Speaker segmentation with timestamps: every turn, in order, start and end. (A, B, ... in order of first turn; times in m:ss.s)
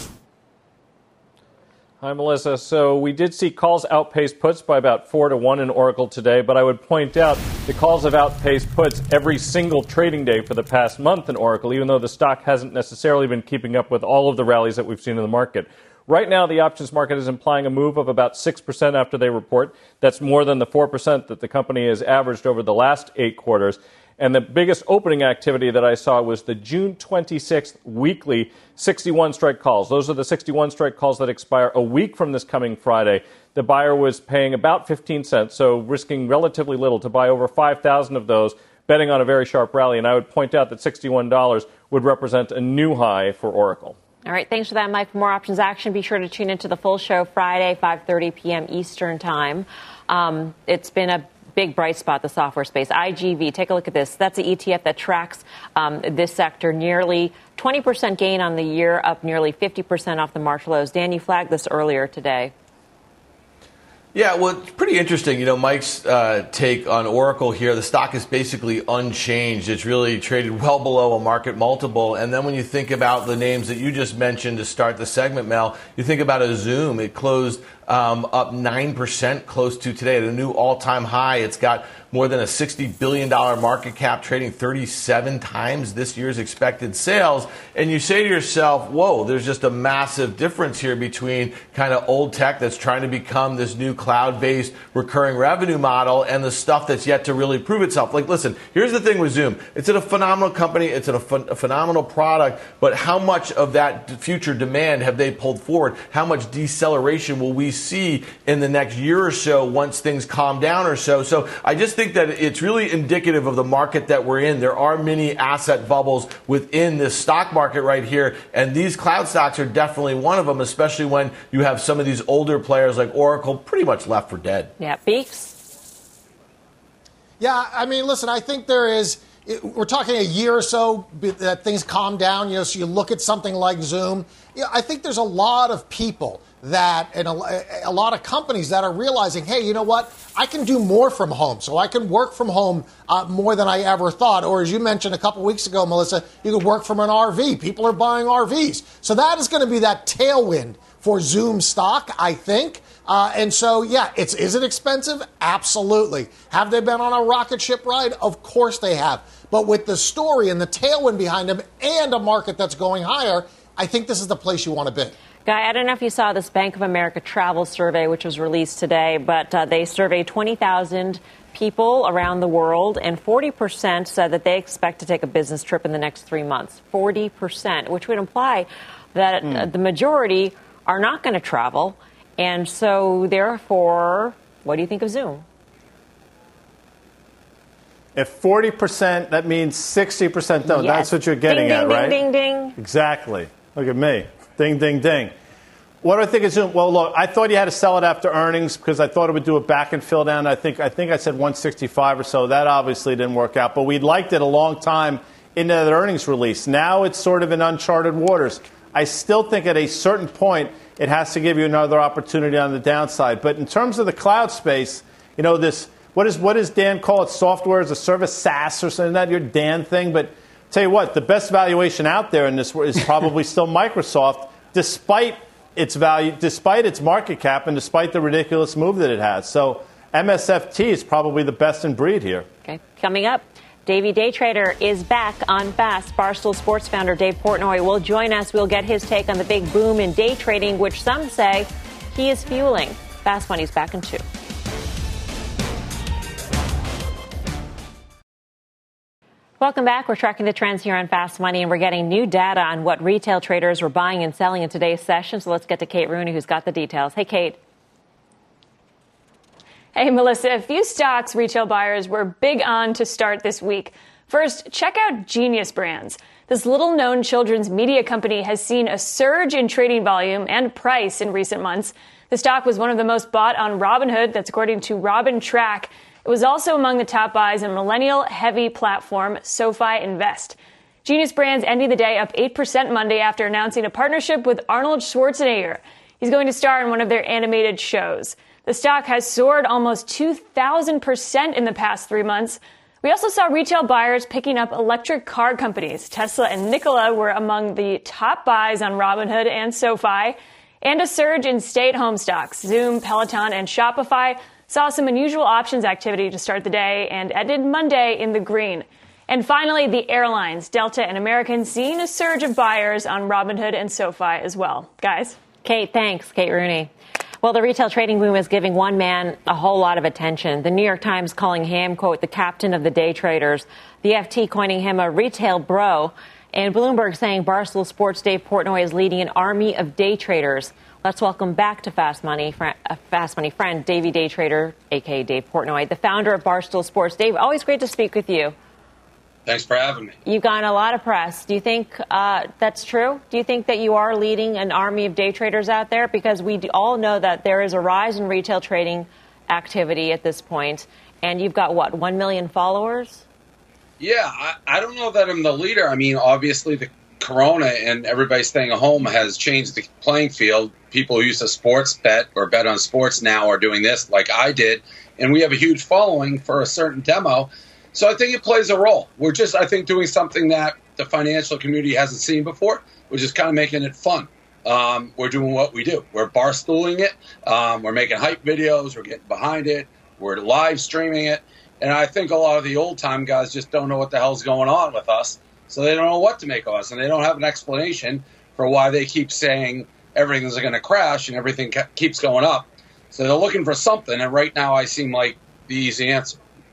0:02.0-0:44.0 A
0:44.2-1:02.5 B
1:04.1-2:04.7 C
2:04.8-2:05.6 B
2:07.4-2:45.1 D
2:45.4-3:05.4 B
3:08.1-3:12.2 E
3:10.6-3:12.8 B
3:12.8-3:15.3 E
3:16.0-3:52.5 E
3:52.6-4:04.2 B
4:09.6-4:17.6 B
4:19.9-5:15.4 F
5:15.6-5:16.9 B
5:17.4-5:38.5 B
5:39.4-5:40.2 G
5:40.2-5:53.2 B
5:54.0-6:36.4 G